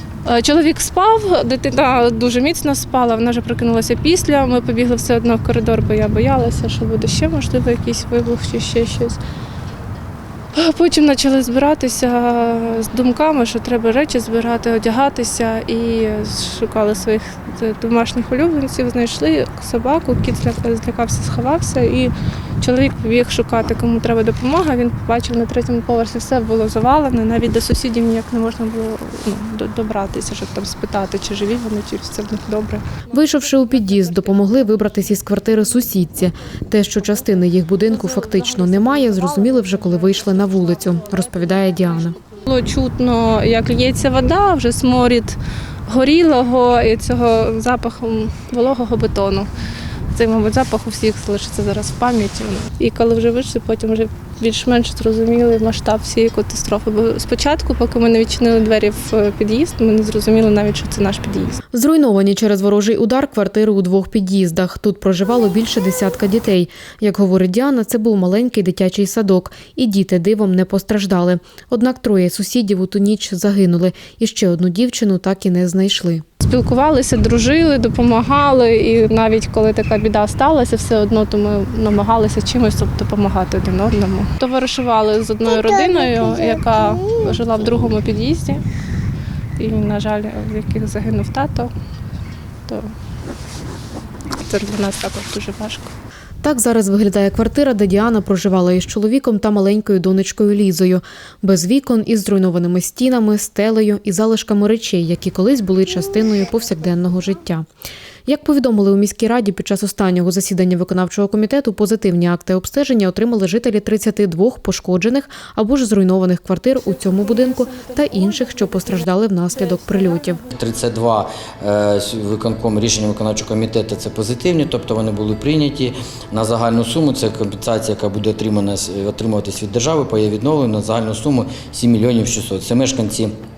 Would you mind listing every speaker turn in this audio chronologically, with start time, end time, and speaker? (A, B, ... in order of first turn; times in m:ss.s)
0:00.2-0:09.2 A
0:10.5-0:34.9 A
0:33.1-0:42.2 B
0:38.1-0:39.4 A
0:42.2-0:49.5 A
0:50.1-1:01.6 A
1:01.7-1:16.2 B
1:16.4-1:28.6 A
1:29.6-1:31.7 A
1:34.4-1:35.9 A
1:36.4-1:47.6 B
1:48.2-2:00.4 B
1:57.5-1:58.0 A
2:00.5-2:13.3 C